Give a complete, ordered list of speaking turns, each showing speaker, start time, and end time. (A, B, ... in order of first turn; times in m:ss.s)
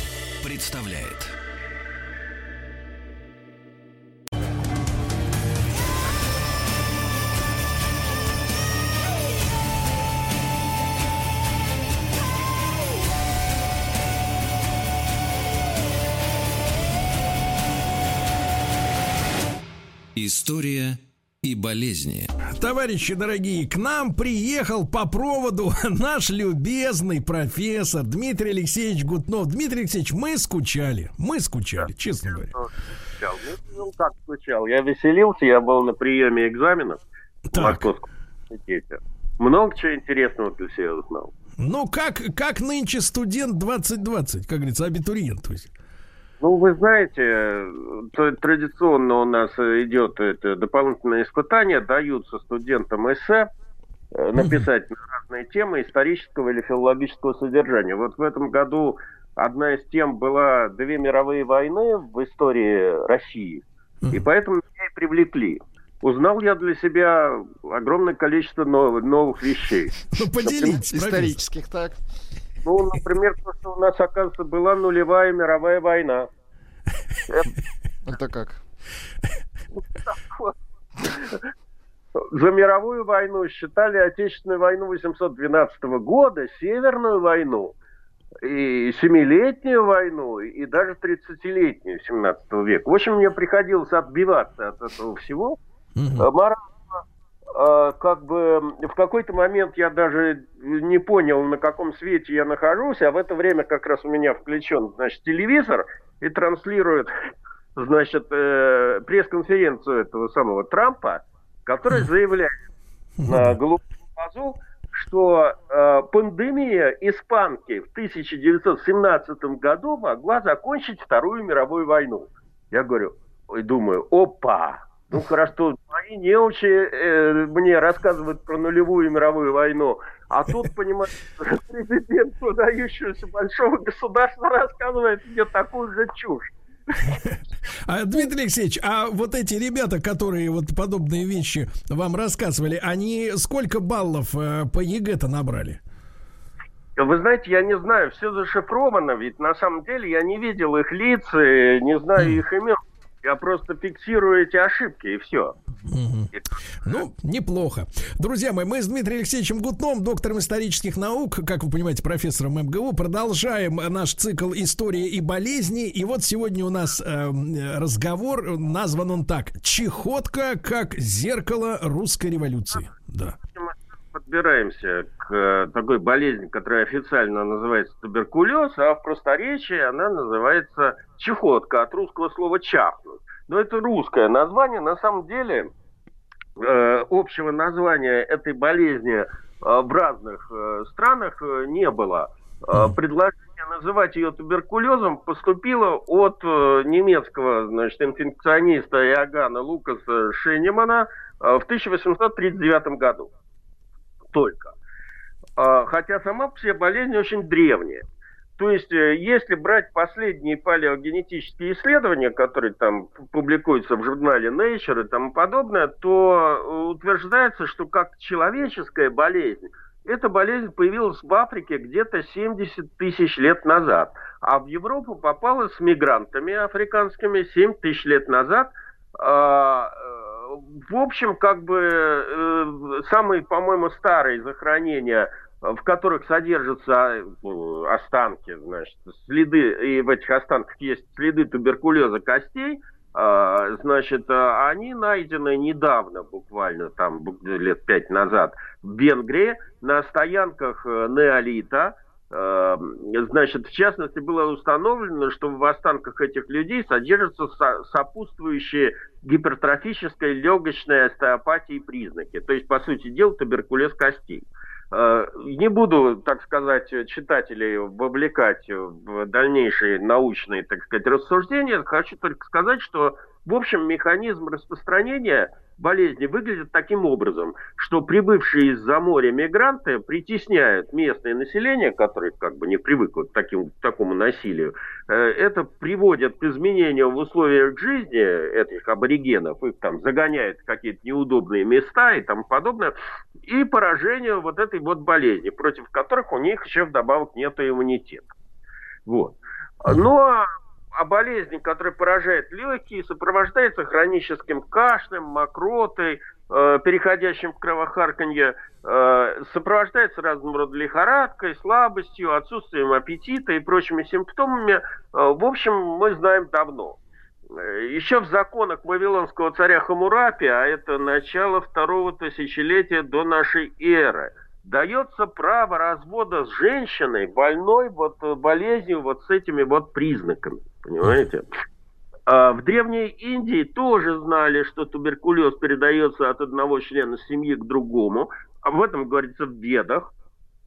0:00.4-0:01.3 A
0:20.1-0:22.3 A
0:22.5-0:32.5 B
0:32.3-0:41.3 C
0:37.5-0:37.9 B
0:41.6-0:45.7 B
0:46.4-0:53.5 C
0:54.1-1:10.8 C
0:54.4-0:54.7 B
1:10.1-1:11.4 B
1:10.5-1:12.0 D
1:12.6-1:16.3 C
1:18.0-1:18.6 D
1:19.8-1:21.4 C
1:22.2-1:27.8 C
1:28.4-1:35.6 C
1:36.0-1:36.3 B
1:36.2-1:37.0 C
1:37.5-1:47.1 C
1:47.8-1:52.5 C
1:53.2-1:53.5 B
1:53.2-2:16.5 C
2:17.0-2:25.8 B
2:27.0-2:35.5 C
2:35.9-2:36.3 B
2:36.8-2:53.4 B
2:53.5-3:05.7 C
3:06.6-3:23.3 C
3:24.3-3:24.7 C
3:25.6-3:28.0 C
3:28.6-4:58.3 C
4:59.0-5:31.4 C
5:32.3-5:40.1 C